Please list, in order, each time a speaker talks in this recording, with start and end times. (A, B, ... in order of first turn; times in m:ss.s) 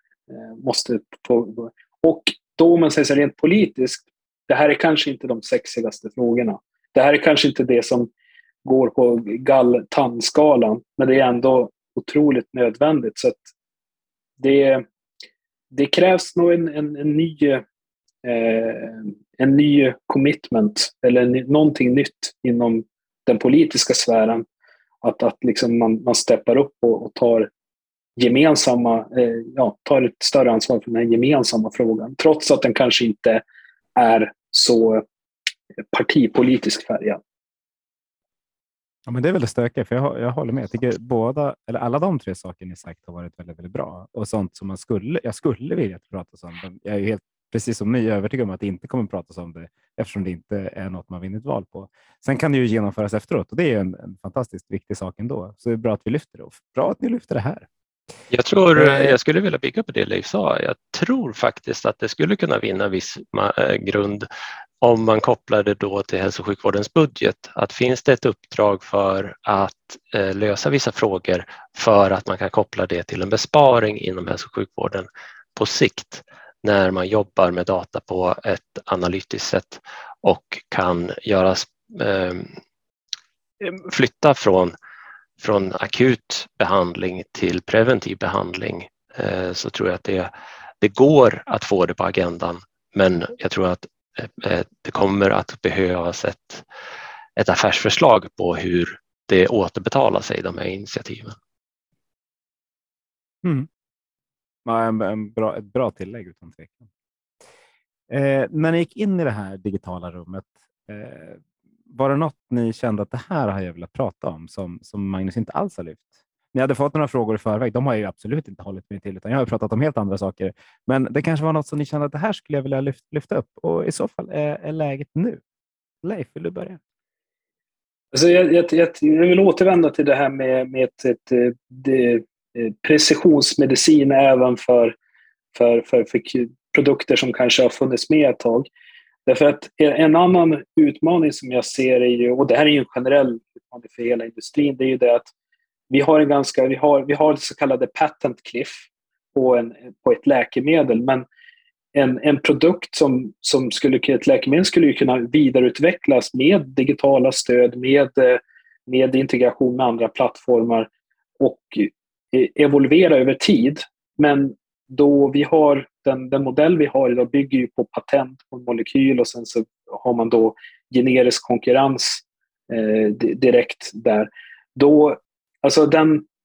0:00.3-0:08.1 A
0:08.6-0:13.5 A
0:14.4-0:14.8 A
0:15.7-0:17.6 A
0:18.2-0:24.5 A
0:25.0-0:27.5 A
0:28.2-0:33.4 A
0:34.0-0:35.0 A
0:35.9-0:37.2 A
0:39.1-0:57.7 B
0:58.3-1:04.3 C
0:58.8-0:59.2 B
1:04.8-1:22.5 C
1:23.6-1:24.7 C
1:25.4-1:36.7 C
1:37.4-1:41.4 C
1:43.4-1:43.7 B
1:44.6-1:46.9 B
1:48.1-2:05.4 B
2:06.0-2:06.8 B
2:08.1-2:15.0 A
2:15.5-2:18.7 A
2:19.3-2:25.3 A
2:25.9-2:31.3 A
2:31.9-2:40.9 A
2:41.4-2:56.3 A